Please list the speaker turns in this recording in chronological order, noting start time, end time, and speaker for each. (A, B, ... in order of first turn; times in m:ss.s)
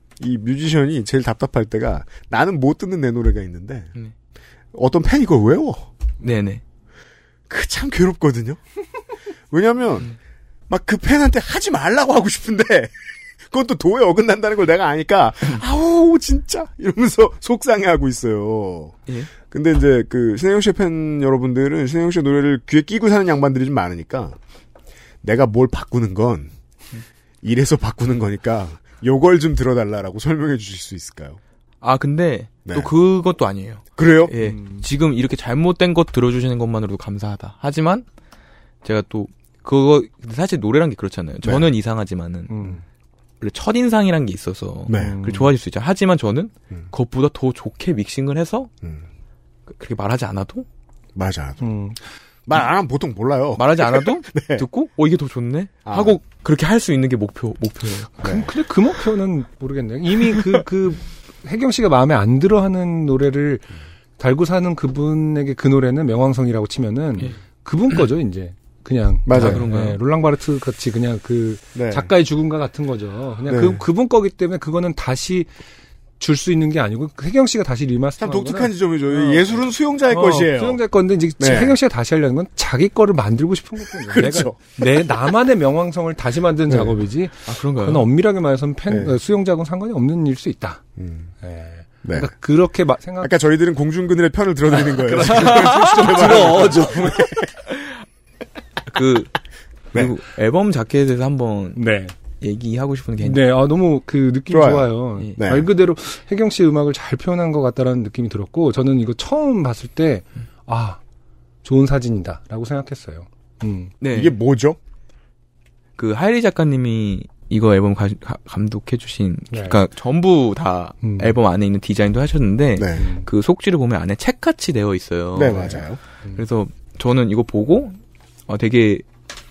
0:00.2-0:03.9 A
0:04.7-0:05.9 A
0:06.2-0:06.6 B
0:07.5-0:08.6 A
0:09.5-0:10.1 A
0:10.7-0:12.9 A
0:13.5-0:24.4 A
0:25.2-0:26.5 A
0:27.4-0:31.4 A
0:31.8-0:38.1 B
0:32.6-0:32.9 A
0:34.0-0:34.3 A
0:34.4-0:34.9 C
0:38.8-0:42.7 B
0:42.5-0:42.8 C
0:43.4-0:48.7 B
0:44.9-0:45.3 A
0:44.9-0:45.5 C
0:49.7-0:50.7 B
0:51.2-0:51.6 A
0:51.6-0:52.0 C
0:52.5-0:54.7 A
0:53.6-0:58.1 B
0:55.8-0:56.2 A
0:58.2-1:15.5 C
0:58.2-0:58.5 A
1:09.3-1:09.7 A
1:09.3-1:10.0 B
1:11.8-1:12.1 A
1:13.5-1:13.8 A
1:16.2-1:30.8 C
1:18.2-1:20.8 A
1:21.4-1:21.8 A
1:24.1-1:24.7 A
1:26.7-1:27.0 A
1:27.4-1:28.1 B
1:28.9-1:29.2 A
1:31.0-1:31.3 A
1:31.4-1:33.3 C
1:32.0-1:32.3 A
1:33.2-1:37.5 A
1:34.7-1:37.2 C
1:38.9-1:39.3 B
1:39.9-1:41.8 B
1:41.8-1:42.1 C
1:42.4-1:43.4 B
1:43.2-1:51.0 C
1:44.5-1:45.7 A
1:51.6-1:53.9 C
1:54.0-1:54.4 B
1:54.1-1:54.8 A
1:56.0-2:09.0 B
1:59.5-1:59.8 C
2:01.0-2:01.4 C
2:02.8-2:03.0 A
2:03.0-2:03.3 C
2:05.4-2:06.0 A